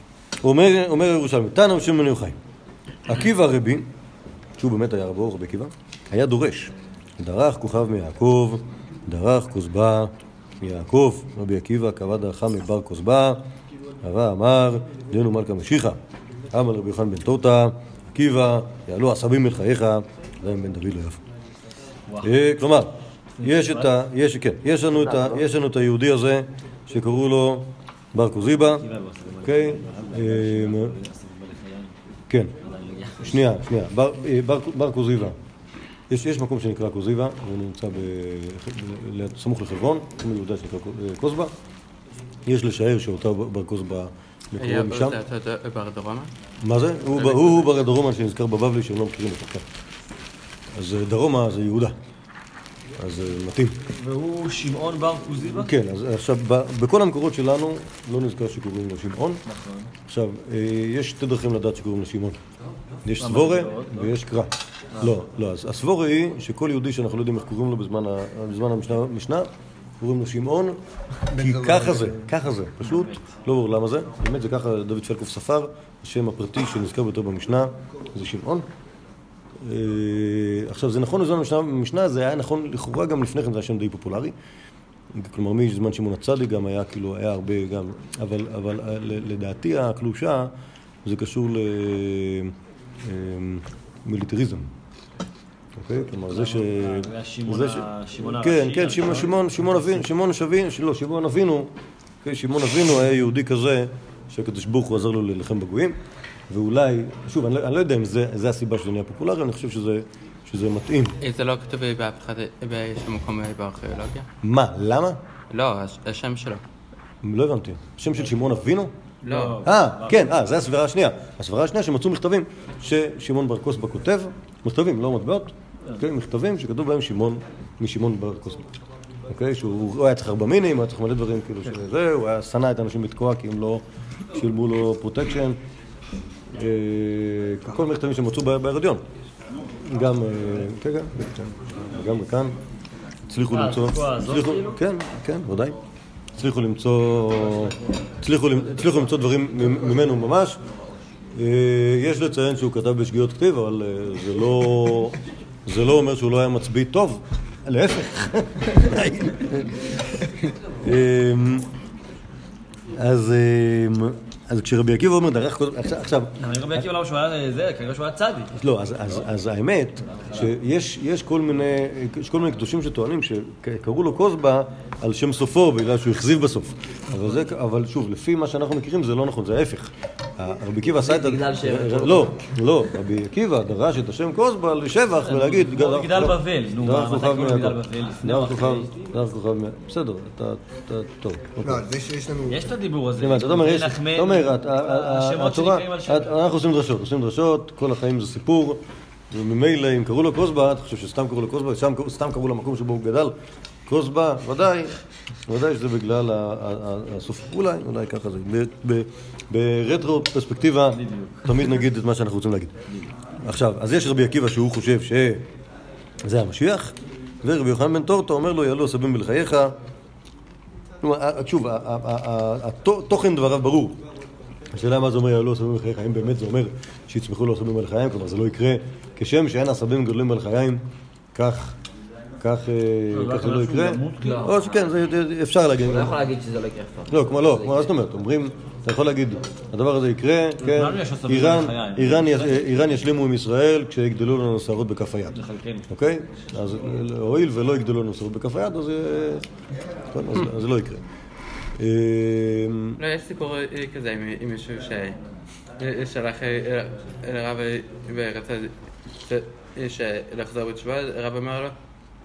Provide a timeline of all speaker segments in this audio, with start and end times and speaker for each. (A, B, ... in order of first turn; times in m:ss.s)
0:00.4-0:02.4 A
0:03.1-0:03.9 A
0:04.6-0:13.5 A
0:14.0-0:16.0 A
0:16.5-0:21.2 A
0:22.2-0:28.8 A
0:23.4-0:23.9 B
0:25.0-0:25.4 C
0:28.6-0:32.0 B
0:29.4-0:30.9 A
0:32.6-0:33.4 B
0:33.2-0:35.4 A
0:36.1-0:41.5 A
0:42.4-0:45.2 A
0:44.6-0:46.3 D
0:46.6-0:49.6 A
0:47.2-0:47.6 D
0:50.7-0:52.0 A
0:53.0-0:53.8 A
0:54.0-0:55.7 B
0:55.6-0:59.4 A
0:59.4-0:59.9 B
1:00.1-1:02.4 A
1:03.0-1:09.5 A
1:03.2-1:04.1 B
1:10.0-1:10.8 A
1:11.3-1:12.3 E
1:11.3-1:18.6 A
1:12.8-1:13.2 B
1:19.6-1:24.3 A
1:25.1-1:30.5 A
1:31.0-1:34.7 A
1:35.8-1:41.7 A
1:36.3-1:40.0 B
1:42.2-1:46.0 A
1:46.5-1:51.1 A
1:51.2-1:54.3 D
1:54.4-1:55.2 A
1:55.5-1:56.6 D
1:57.2-1:58.9 A
1:59.2-1:59.6 D
1:59.2-2:00.3 B
1:59.6-2:08.6 A
2:09.3-2:15.6 A
2:16.5-2:19.0 A
2:19.8-2:22.6 A
2:23.3-2:25.8 A
2:23.5-2:24.8 B
2:26.3-2:30.6 A
2:31.3-2:41.7 A
2:43.0-2:46.8 A
2:46.4-2:48.5 B
2:48.5-3:11.8 A
3:00.9-3:02.5 C
3:05.2-3:09.0 B
3:11.6-3:12.7 E
3:12.5-3:16.4 B
3:13.2-3:18.8 A
3:19.3-3:23.3 A
3:23.9-3:32.8 A
3:30.9-3:31.7 B
3:33.4-3:35.4 A
3:36.2-3:39.8 A
3:41.0-3:44.0 A
3:44.7-3:50.8 A
3:51.3-3:51.7 A
3:52.4-3:56.2 A
3:53.1-3:54.5 B
3:54.2-3:54.9 C
3:55.8-3:57.9 C
3:57.1-4:05.4 A
4:00.6-4:02.6 B
4:05.3-4:05.8 B
4:05.9-4:09.5 A
4:10.1-4:11.0 A
4:11.8-4:13.0 A
4:13.0-4:15.2 D
4:15.8-4:21.7 D